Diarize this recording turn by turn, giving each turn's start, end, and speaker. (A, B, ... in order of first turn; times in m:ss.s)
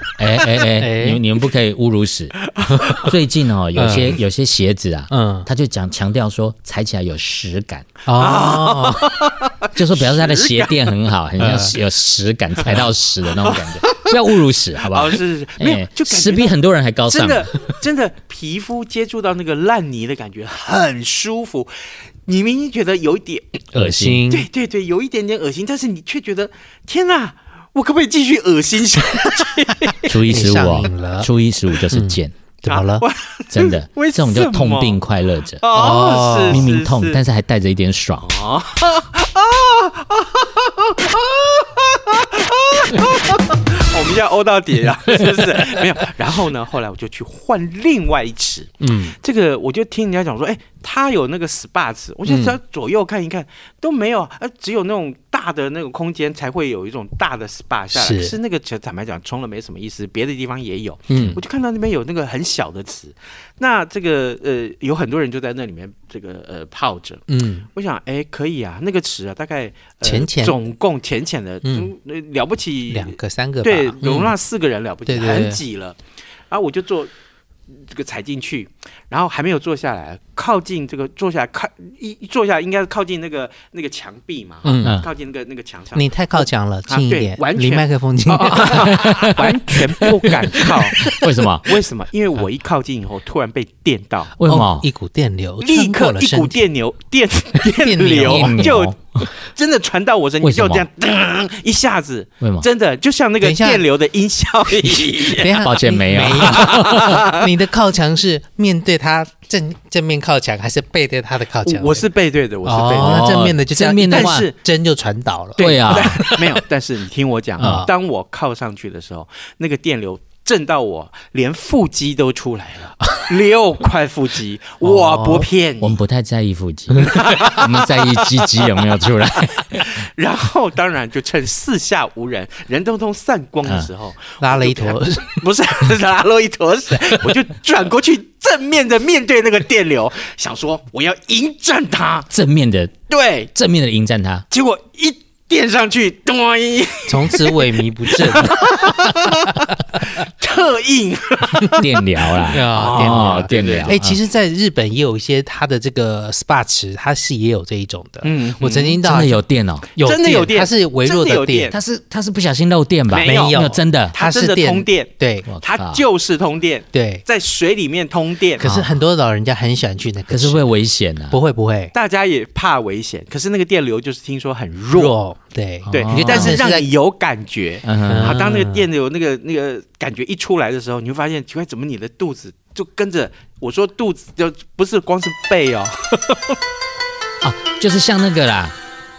0:00.2-0:02.4 A
0:00.8-0:01.2 B
0:02.7-0:03.0 B
0:03.0-0:07.9 A
0:03.8-0:04.2 B
0:05.1-0:05.5 B
0:08.1-0:09.1 B
0:08.2-0:10.8 C
0:09.8-0:17.4 A
0:11.4-0:11.8 B
0:13.4-0:14.1 C
0:14.9-0:16.5 C
0:17.1-0:21.7 C
0:22.3-0:23.6 C
0:23.7-0:24.5 B
0:23.8-0:24.2 A
0:24.3-0:30.1 C
0:30.1-0:32.3 A
0:30.3-0:31.3 B
0:31.9-0:33.0 B
0:32.7-0:35.0 C
0:33.5-0:36.0 A
0:35.6-0:37.2 C
0:35.8-0:36.7 B
0:36.5-0:38.3 A
0:38.2-1:07.2 C
0:48.8-0:49.2 B
0:52.3-0:52.6 B
0:57.9-0:58.4 B
1:01.1-1:01.4 B
1:07.3-1:07.7 B
1:07.7-1:16.0 C
1:10.0-1:10.6 B
1:11.6-1:11.9 B
1:12.9-1:14.4 B
1:15.1-1:15.6 B
1:16.5-1:17.1 C
1:17.7-1:31.0 C
1:24.6-1:25.0 B
1:26.0-1:29.0 B
1:28.9-1:29.4 A
1:30.3-1:30.5 B
1:31.0-1:31.7 A
1:31.7-1:34.3 C
1:34.4-1:34.9 A
1:34.4-1:36.6 B
1:35.6-1:45.6 C
1:37.6-1:38.7 B
1:38.3-1:39.0 A
1:40.4-1:40.9 A
1:42.4-1:42.7 A
1:43.4-1:43.8 B
1:44.9-1:52.1 B
1:45.6-1:47.2 A
1:46.2-1:47.3 C
1:51.7-1:54.5 C
1:52.6-1:56.5 B
1:53.0-1:54.5 A
1:55.6-2:06.0 C
1:55.6-1:56.3 A
1:57.6-1:57.9 A
1:57.6-1:57.9 B
2:04.8-2:05.5 B
2:05.8-2:09.9 A
2:07.0-2:08.2 C
2:09.7-2:22.3 C
2:14.4-2:15.5 B
2:22.3-2:23.0 A
2:23.1-2:23.5 C
2:23.5-2:24.4 A
2:24.5-2:34.0 C
2:27.1-2:29.2 B
2:31.8-2:34.2 A
2:32.5-2:39.4 B
2:38.2-2:39.0 C
2:39.0-2:39.9 A
2:40.0-2:41.7 B
2:40.0-2:41.8 C
2:41.7-2:44.2 A
2:43.1-2:43.6 C
2:43.2-2:45.5 B
2:44.1-2:48.6 C
2:45.5-2:46.0 A
2:46.9-2:47.2 B
2:48.6-2:50.7 B
2:48.6-2:48.9 A
2:50.3-2:51.4 A
2:51.3-2:51.9 B
2:51.9-2:55.2 C
2:54.9-2:56.9 B
2:55.9-3:06.6 C
2:55.9-2:56.6 A
2:57.8-2:58.2 A
2:58.1-2:58.8 B
3:07.4-3:08.8 A